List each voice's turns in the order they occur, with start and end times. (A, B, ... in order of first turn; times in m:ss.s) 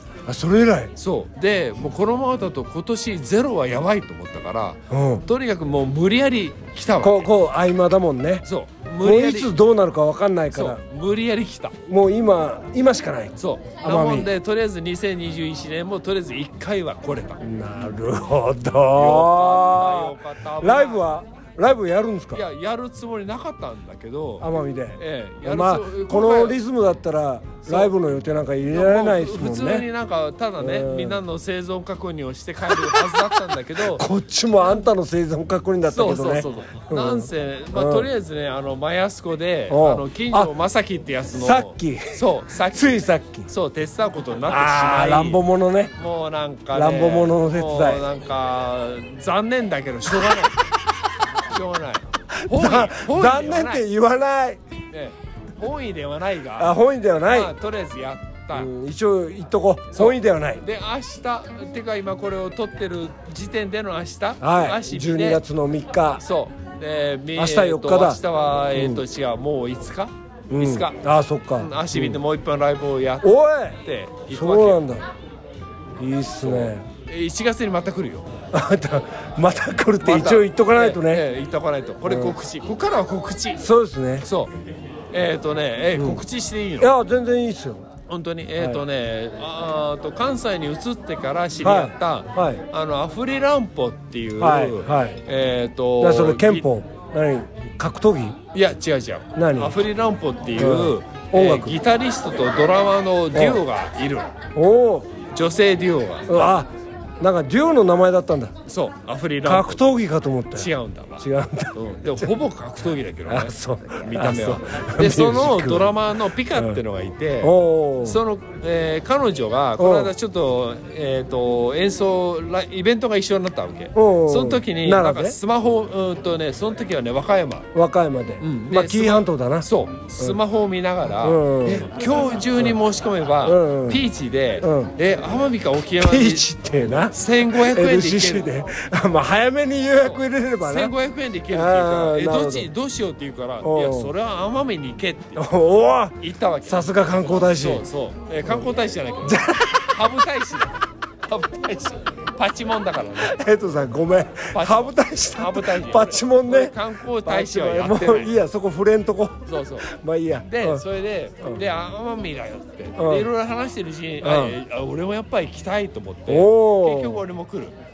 0:00.3-0:00.9 A
0:00.9-0:07.3 B
0:04.9-0:05.2 A
0:07.0-0:08.4 A
0:08.4-0:09.5 B
0:09.0-0:10.8 A
0:10.5-0:11.7 B
0:11.9-0:14.3 A
0:13.4-0:17.4 B
0:17.4-0:22.4 A
0:19.0-0:21.1 B
0:22.3-0:26.6 B
0:24.4-0:29.8 A
0:27.6-0:27.9 B
0:28.7-0:34.0 B
0:30.6-0:31.2 A
0:33.8-0:38.1 A
0:35.8-0:43.0 B
0:39.7-0:40.5 A
0:41.3-0:43.5 A
0:43.5-0:45.4 B
0:44.5-0:45.9 A
0:45.9-0:50.6 B
0:46.7-0:48.0 A
0:51.4-0:53.8 B
0:52.4-0:54.6 A
0:54.9-0:58.7 B
0:56.6-0:57.5 A
0:58.5-1:00.6 A
0:59.9-1:05.4 B
1:04.4-1:06.2 A
1:06.2-1:11.0 B
1:07.4-1:08.2 A
1:08.7-1:09.0 A
1:10.5-1:12.2 A
1:11.6-1:14.8 B
1:13.2-1:13.8 A
1:14.3-1:15.0 A
1:16.0-1:16.8 A
1:16.4-1:18.3 B
1:18.5-1:21.2 A
1:20.0-1:23.6 B
1:22.0-1:22.4 A
1:23.6-1:24.3 A
1:24.2-1:24.5 B
1:25.1-1:26.9 B
1:25.9-1:26.2 A
1:26.8-1:27.8 A
1:28.1-1:36.7 B
1:31.6-1:32.6 A
1:34.4-1:35.2 A
1:36.0-1:38.4 A
1:38.5-1:44.3 B
1:39.3-1:39.8 A
1:40.6-1:41.8 A
1:43.3-1:43.6 A
1:44.6-1:45.1 A
1:45.3-1:46.3 B
1:46.2-1:46.7 A
1:47.2-1:48.5 A
1:48.7-1:49.8 B
1:49.4-1:51.8 A
1:50.5-2:07.7 B
1:53.2-1:56.0 A
1:56.5-1:56.8 A
1:57.4-1:58.2 A
1:59.8-2:00.1 A
2:03.9-2:05.4 A
2:07.7-2:09.7 A
2:08.4-2:16.4 B
2:11.2-2:11.9 A
2:13.4-2:14.0 A
2:14.6-2:14.9 A
2:16.0-2:20.9 A
2:17.1-2:18.5 B
2:20.0-2:25.4 B
2:21.5-2:22.7 A
2:23.6-2:24.1 A
2:25.4-2:27.8 A
2:26.2-2:33.4 B
2:29.2-2:30.2 A
2:33.2-2:40.8 A
2:34.5-2:38.3 B
2:39.4-2:39.9 B
2:40.4-2:47.7 B
2:43.0-2:43.3 A
2:44.2-2:44.6 A
2:46.3-2:47.2 A